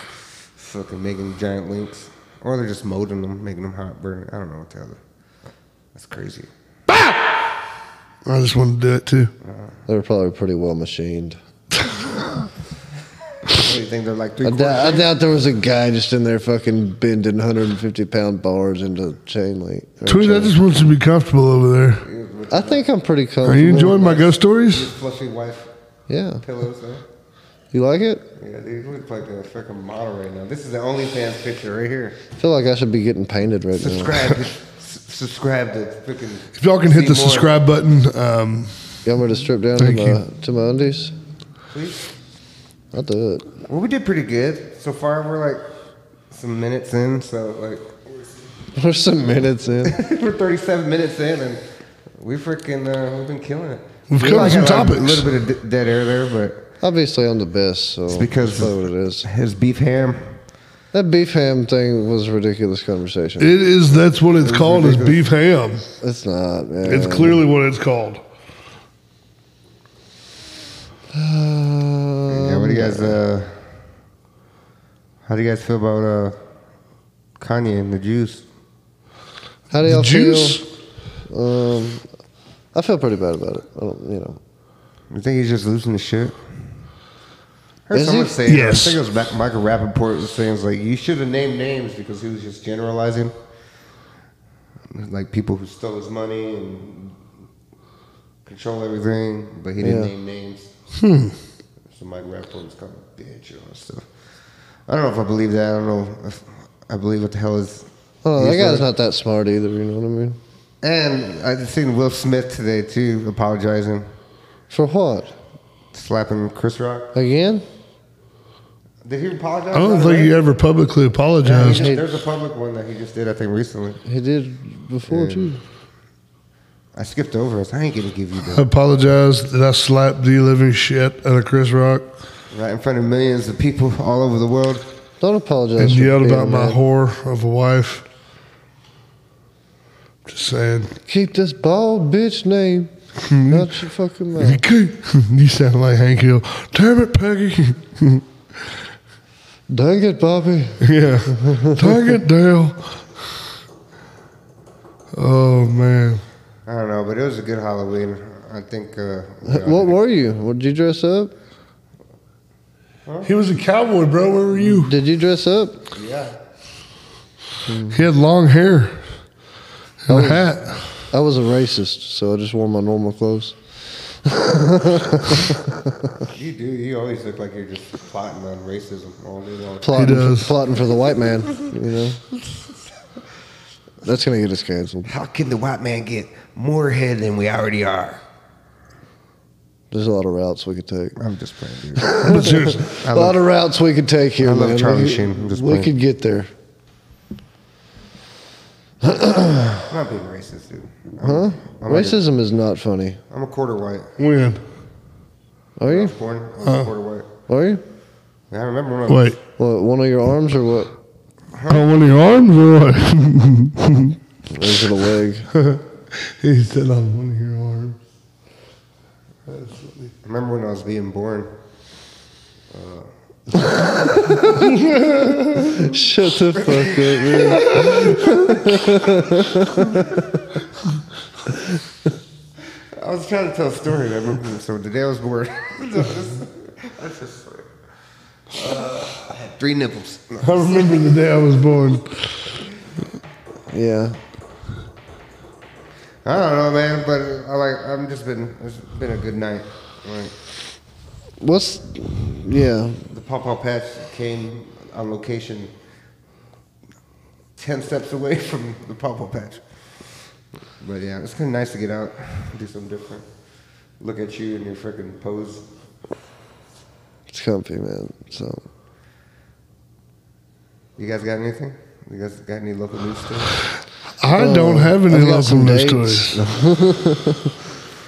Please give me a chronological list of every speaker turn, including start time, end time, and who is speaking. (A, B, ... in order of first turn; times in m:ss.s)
0:00.6-0:05.0 A
0:05.9-0:06.5 A
0:08.2-0:09.3 B
0:09.4-0:09.7 A
0:09.9-0:11.4 C
0:13.5-0:15.1 A
0:14.4-0:20.6 C
0:20.1-0:22.0 B
0:22.0-0:22.8 A
0:22.5-0:24.0 C
0:23.4-0:24.9 B
0:23.7-0:25.7 A
0:26.1-0:26.4 C
0:26.4-0:27.0 A
0:27.7-0:28.3 C
0:28.4-0:32.2 A
0:32.4-0:34.3 C
0:33.8-0:37.5 A
0:36.6-0:38.7 B
0:39.0-0:41.2 C
0:39.8-0:40.2 B
0:41.7-0:42.0 A
0:42.9-0:43.5 C
0:43.7-0:45.6 A
0:46.3-0:48.1 A
0:48.7-0:50.0 C
0:49.8-0:51.6 A
0:52.2-0:56.7 A
0:54.1-0:55.3 B
0:56.8-0:59.3 C
0:58.1-1:00.4 A
1:00.9-1:03.5 C
1:03.4-1:05.8 B
1:04.4-1:05.2 A
1:06.0-1:07.4 C
1:06.8-1:08.2 B
1:11.1-1:13.2 C
1:12.3-1:13.6 A
1:15.3-1:16.4 A
1:17.4-1:18.4 A
1:19.7-1:20.6 C
1:19.9-1:20.6 B
1:21.3-1:22.0 C
1:22.7-1:24.4 C
1:25.1-1:26.4 A
1:27.9-1:33.3 A
1:27.9-1:28.4 C
1:28.4-1:29.0 B
1:34.9-1:37.2 A
1:38.5-1:40.7 A
1:39.8-1:40.1 C
1:41.0-1:41.4 B
1:41.9-1:44.1 A
1:44.9-1:48.9 A
1:48.2-1:50.4 C
1:50.8-1:54.1 A
1:54.7-1:55.3 C
1:55.9-1:57.1 A
1:57.1-1:57.6 C
1:59.0-2:00.3 A
1:59.7-2:01.9 B
2:01.4-2:04.0 A
2:01.7-2:02.0 C
2:04.0-2:05.6 C
2:05.1-2:05.5 A
2:06.9-2:08.7 A
2:08.4-2:12.1 B
2:12.5-2:14.9 A
2:15.2-2:16.8 C
2:15.8-2:18.0 B
2:20.3-2:21.0 B
2:21.1-2:22.9 C
2:23.2-2:23.8 B
2:23.5-2:24.6 C
2:24.4-2:28.3 B
2:29.7-2:32.1 C
2:30.8-2:33.3 B
2:35.1-2:36.2 B
2:36.7-2:40.0 A
2:39.4-2:41.3 C
2:43.1-2:43.3 A
2:43.2-2:45.0 B
2:44.6-2:45.8 C
2:45.9-2:46.4 A
2:47.7-2:48.0 C
2:47.9-2:49.0 B
2:50.0-2:50.8 B
2:50.1-2:53.6 C
2:54.2-2:56.2 C
2:56.2-3:00.1 A
2:59.8-3:02.2 C
2:59.9-3:00.6 B
3:04.0-3:05.1 C
3:05.1-3:08.2 A
3:09.9-3:11.2 C
3:11.2-3:12.2 A
3:12.0-3:16.5 C
3:12.2-3:13.0 B
3:12.9-3:13.4 A
3:14.4-3:15.9 A
3:19.0-3:19.9 C
3:19.9-3:22.2 A
3:21.2-3:23.2 C
3:23.3-3:24.1 A
3:24.2-3:24.6 B
3:25.8-3:26.1 C
3:25.9-3:27.3 A
3:26.6-3:26.9 B
3:27.5-3:27.8 C
3:28.5-3:29.4 A
3:29.1-3:29.4 B
3:29.6-3:30.9 C
3:31.5-3:31.9 A
3:31.7-3:34.2 B
3:34.5-3:35.5 C
3:35.5-3:38.0 B
3:39.5-3:40.1 B
3:40.2-3:41.5 A
3:42.7-3:43.1 A
3:44.0-3:44.6 C
3:44.3-3:45.9 B
3:45.7-3:50.4 C
3:46.5-3:48.1 A
3:47.4-3:48.9 B
3:49.7-3:50.2 A
3:53.0-3:57.7 A
3:58.5-4:01.3 A
4:00.4-4:02.4 B
4:03.7-4:04.2 C
4:06.2-4:10.3 A
4:11.4-4:13.0 C
4:13.1-4:15.7 A
4:17.6-4:19.6 A
4:20.8-4:23.3 A
4:24.0-4:25.7 A
4:27.3-4:28.6 C
4:31.0-4:33.6 A
4:34.2-4:36.4 B
4:34.3-4:37.6 C